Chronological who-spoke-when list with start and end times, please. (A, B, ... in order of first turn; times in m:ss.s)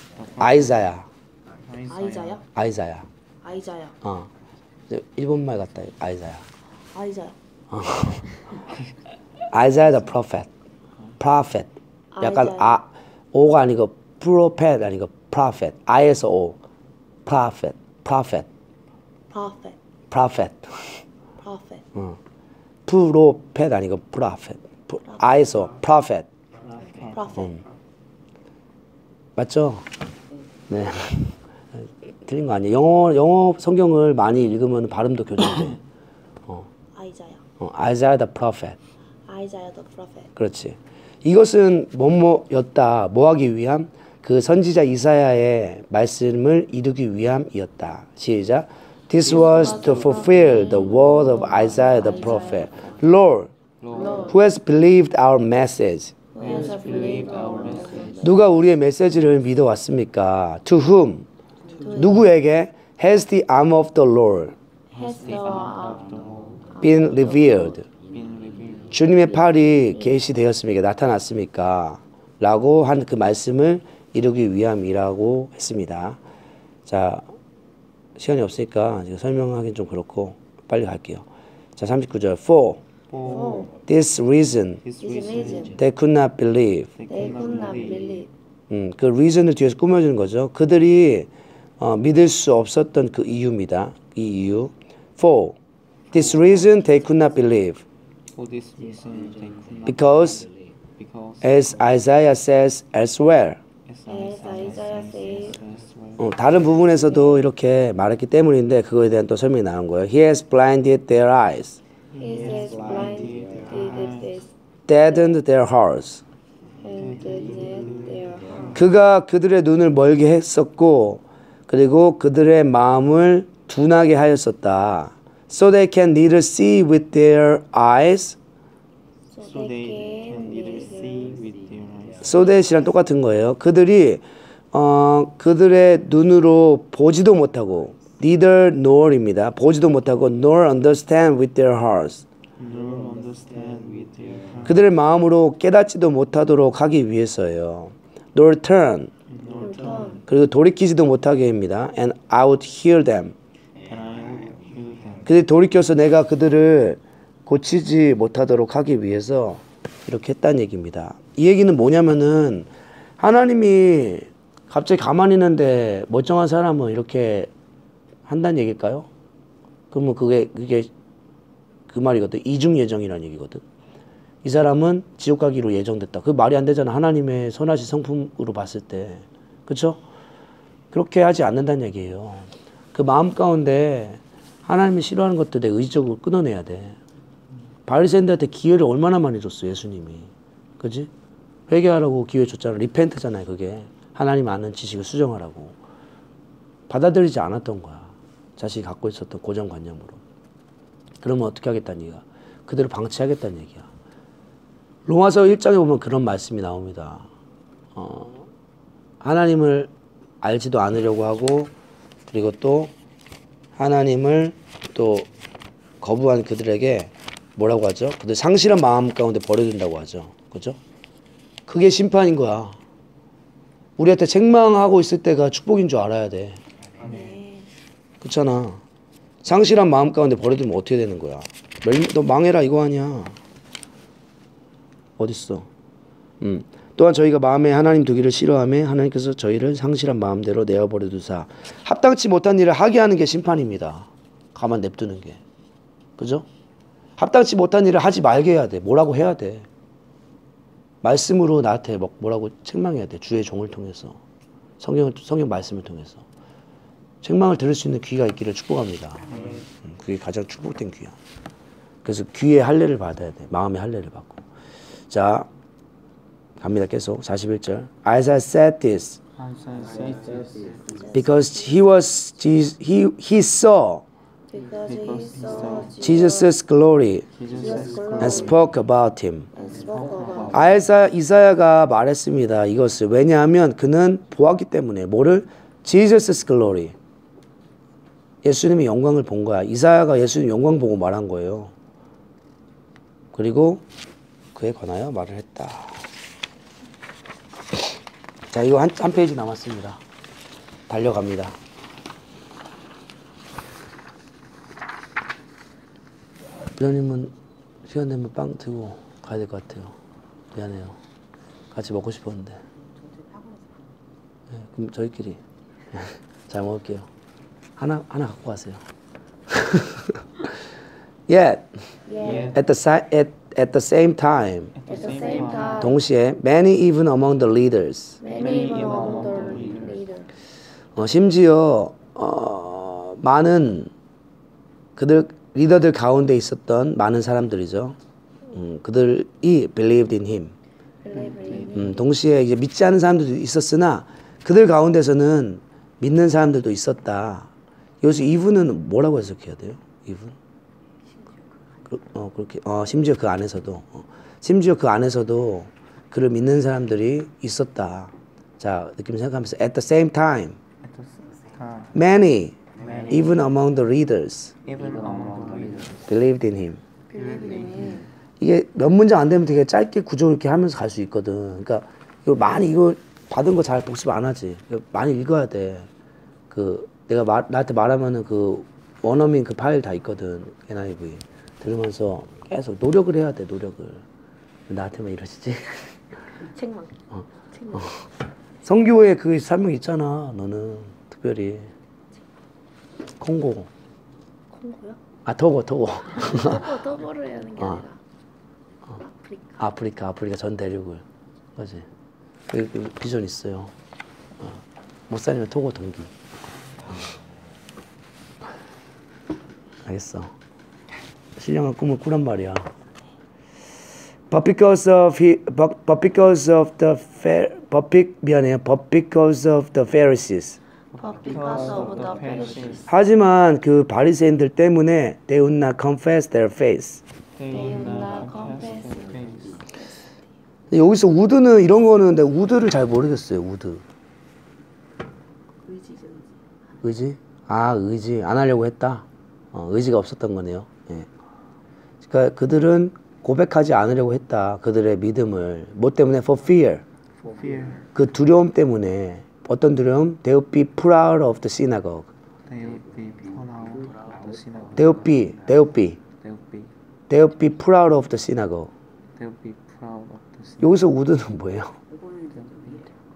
0:00.4-0:01.0 A
0:01.6-0:02.4 B
0:01.9-0:02.4 C
0:02.5-0:03.1 A
0:03.4-0:04.0 C
0:04.0-0:04.3 A
0:04.9-0:06.4 A
0:06.9-0:07.4 C
0:07.7-0:08.3 A
0:09.5-0:10.5 A
0:11.2-0:16.6 A
0:12.1-0:12.8 C
0:17.2-0:18.5 A
0:19.3-0:19.8 C
0:20.1-0:21.0 A
0:21.4-0:21.9 C
0:22.8-0:26.3 A
0:26.8-0:27.4 B
0:27.0-0:27.6 C
0:29.4-0:29.9 A
0:30.7-0:35.8 A
0:36.9-0:37.4 C
0:37.6-0:38.8 A
0:39.3-0:40.3 C
0:40.4-0:53.5 A
0:49.2-0:52.8 C
0:53.8-0:54.2 B
0:53.9-0:54.4 C
0:54.3-0:56.1 A
0:56.3-0:58.4 C
0:56.4-0:58.2 B
0:58.2-1:01.2 A
1:01.8-1:02.2 C
1:01.9-1:04.6 A
1:04.9-1:06.1 C
1:04.9-1:06.6 B
1:06.7-1:07.7 C
1:06.8-1:07.8 A
1:08.1-1:08.9 B
1:08.9-1:16.2 A
1:16.8-1:17.3 A
1:18.2-1:21.2 A
1:21.8-1:22.8 A
1:23.1-1:23.7 B
1:23.2-1:23.7 C
1:23.9-1:24.8 A
1:24.8-1:25.8 B
1:25.0-1:25.8 C
1:25.8-1:26.9 A
1:27.0-1:28.1 B
1:27.1-1:28.3 C
1:28.7-1:35.6 A
1:36.1-1:37.8 A
1:38.3-1:40.3 B
1:39.8-1:40.5 A
1:41.0-1:41.5 B
1:41.4-1:43.6 A
1:43.9-1:46.3 B
1:44.0-1:45.6 C
1:46.2-1:51.8 A
1:52.1-1:54.3 B
1:52.2-1:54.5 C
1:54.9-1:56.2 A
1:56.8-1:58.8 C
1:57.2-1:57.9 B
1:58.7-2:08.4 A
2:09.3-2:11.4 C
2:09.5-2:12.3 B
2:12.2-2:22.2 A
2:22.6-2:24.7 B
2:24.6-2:29.1 A
2:29.3-2:30.1 B
2:29.6-2:30.2 C
2:30.3-2:33.3 A
2:33.8-2:35.3 B
2:35.2-2:47.5 A
2:48.2-2:49.1 A
2:49.9-2:50.9 A
2:51.9-2:53.6 A
2:54.4-3:00.0 A
3:00.9-3:07.0 A
3:07.9-3:11.1 A
3:11.7-3:15.7 A
3:16.9-3:20.2 A
3:21.2-3:23.9 A
3:25.0-3:27.3 A
3:28.0-3:28.4 A
3:29.2-3:29.9 A
3:30.4-3:31.7 A
3:32.3-3:32.9 A
3:33.8-3:35.3 A
3:36.0-3:40.8 A
3:41.7-3:42.8 A
3:44.0-3:46.6 A
3:47.0-3:47.7 C
3:48.2-3:48.8 A
3:49.4-3:53.4 A
3:55.2-3:55.7 A
3:56.4-4:05.4 A
4:06.2-4:06.4 A
4:07.2-4:09.6 A
4:11.0-4:14.2 A
4:14.8-4:16.2 A
4:17.2-4:19.3 A
4:19.3-4:19.7 B
4:19.8-4:21.1 A
4:22.0-4:24.4 A
4:25.1-4:25.5 A
4:26.6-4:29.2 A
4:29.4-4:30.8 B
4:30.8-4:31.8 C
4:31.1-4:34.0 A
4:34.5-4:36.5 C
4:34.8-4:36.0 B
4:36.0-4:37.3 A
4:37.3-4:38.6 B
4:37.5-4:38.7 C
4:38.2-4:39.5 A
4:39.5-4:40.8 C
4:40.5-4:46.9 A
4:48.4-4:51.7 A
4:53.3-4:53.8 A
4:54.5-4:56.0 A
4:58.5-5:00.0 A
5:00.9-5:01.5 A
5:06.8-5:07.3 A
5:07.8-5:09.9 A
5:10.5-5:11.0 A
5:11.7-5:12.6 A
5:14.5-5:15.4 A
5:15.9-5:17.1 A
5:17.8-5:18.8 A
5:19.5-5:20.5 A
5:21.3-5:21.7 A
5:22.0-5:22.6 C
5:22.2-5:22.5 B
5:22.5-5:24.7 A
5:24.8-5:25.9 B
5:24.8-5:26.0 C
5:25.8-5:28.2 A
5:28.2-5:30.3 C
5:28.3-5:29.9 B
5:31.0-5:33.9 A
5:35.0-5:38.0 A
5:38.5-5:40.5 A
5:41.0-5:42.0 C
5:41.7-5:47.5 A
5:48.0-5:50.4 A
5:51.9-6:00.6 A
6:00.8-6:01.9 B
6:01.9-6:02.6 A
6:02.8-6:03.2 B
6:03.1-6:04.5 A
6:04.6-6:06.0 B
6:06.1-6:06.8 A
6:07.1-6:08.1 C
6:08.4-6:15.9 A
6:16.5-6:24.0 A
6:24.7-6:25.9 A
6:26.4-6:27.0 C
6:27.1-6:28.0 A
6:27.5-6:27.9 C
6:28.6-6:31.7 A
6:33.2-6:33.7 A
6:34.5-6:35.0 C
6:35.2-6:36.7 A
6:36.1-6:38.0 C
6:39.0-6:39.6 C
6:39.6-6:41.0 A
6:41.6-6:41.8 A
6:42.5-6:43.7 A
6:44.4-6:46.1 A
6:49.8-6:50.3 A
6:51.4-6:52.7 A
6:54.3-7:00.6 A
7:00.9-7:02.9 C
7:01.0-7:02.9 B
7:02.9-7:07.0 A
7:07.4-7:09.6 B
7:07.4-7:09.9 C
7:10.7-7:13.8 A
7:16.8-7:21.1 A
7:22.0-7:26.8 A
7:27.2-7:27.8 B
7:27.9-7:32.1 A
7:32.5-7:35.0 B
7:34.8-7:36.0 A
7:36.2-7:36.7 B
7:37.1-7:38.7 A
7:39.1-7:40.7 B
7:40.6-7:41.8 A
7:42.5-7:42.8 B